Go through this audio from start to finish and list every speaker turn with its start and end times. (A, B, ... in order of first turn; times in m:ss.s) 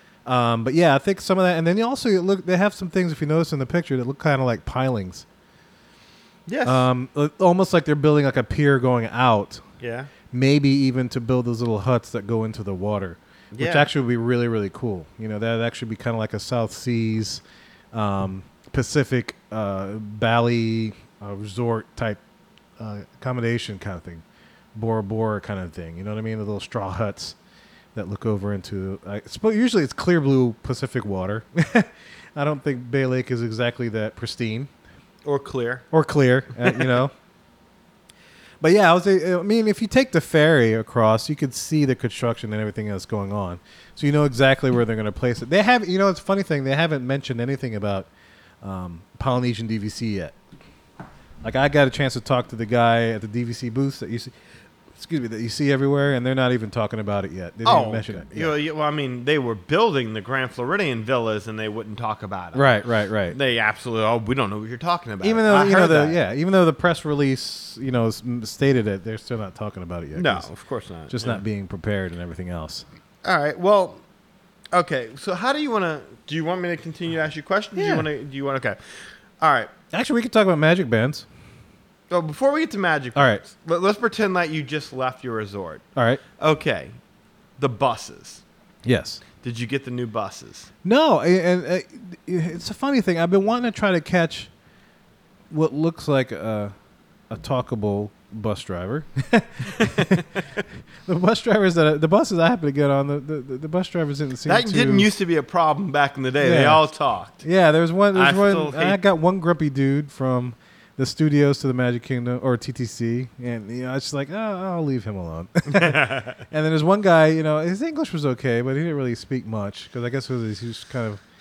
0:00.3-0:05.3 A
0:06.5-0:06.9 B
0:06.6-0:09.6 A
0:09.8-0:10.1 B
0:10.3-0:17.4 A
0:13.5-0:13.9 B
0:17.9-0:22.2 A
0:22.8-0:24.2 A
0:24.8-0:27.4 A
0:28.0-0:34.7 A
0:35.2-0:35.8 B
0:35.9-0:37.1 A
0:36.6-0:36.9 B
0:38.6-0:48.1 A
0:48.6-0:50.4 A
0:51.4-0:54.3 A
0:54.9-0:58.6 A
0:57.6-1:02.7 B
1:02.6-1:03.4 A
1:03.3-1:06.2 B
1:05.2-1:10.5 A
1:10.2-1:11.4 B
1:11.1-1:12.9 A
1:13.2-1:14.0 B
1:14.7-1:19.7 B
1:17.8-1:18.1 A
1:19.9-1:21.3 A
1:22.1-1:25.8 B
1:23.2-1:23.4 A
1:26.0-1:26.2 A
1:26.4-1:27.0 B
1:27.6-1:28.4 B
1:28.8-1:29.2 A
1:29.4-1:30.7 B
1:30.8-1:34.5 A
1:35.5-1:36.7 A
1:37.3-1:40.4 A
1:39.8-1:40.3 B
1:41.1-1:45.1 A
1:44.5-1:47.4 B
1:46.4-1:46.9 A
1:47.4-2:01.2 A
1:48.1-1:49.0 B
1:55.7-1:56.4 B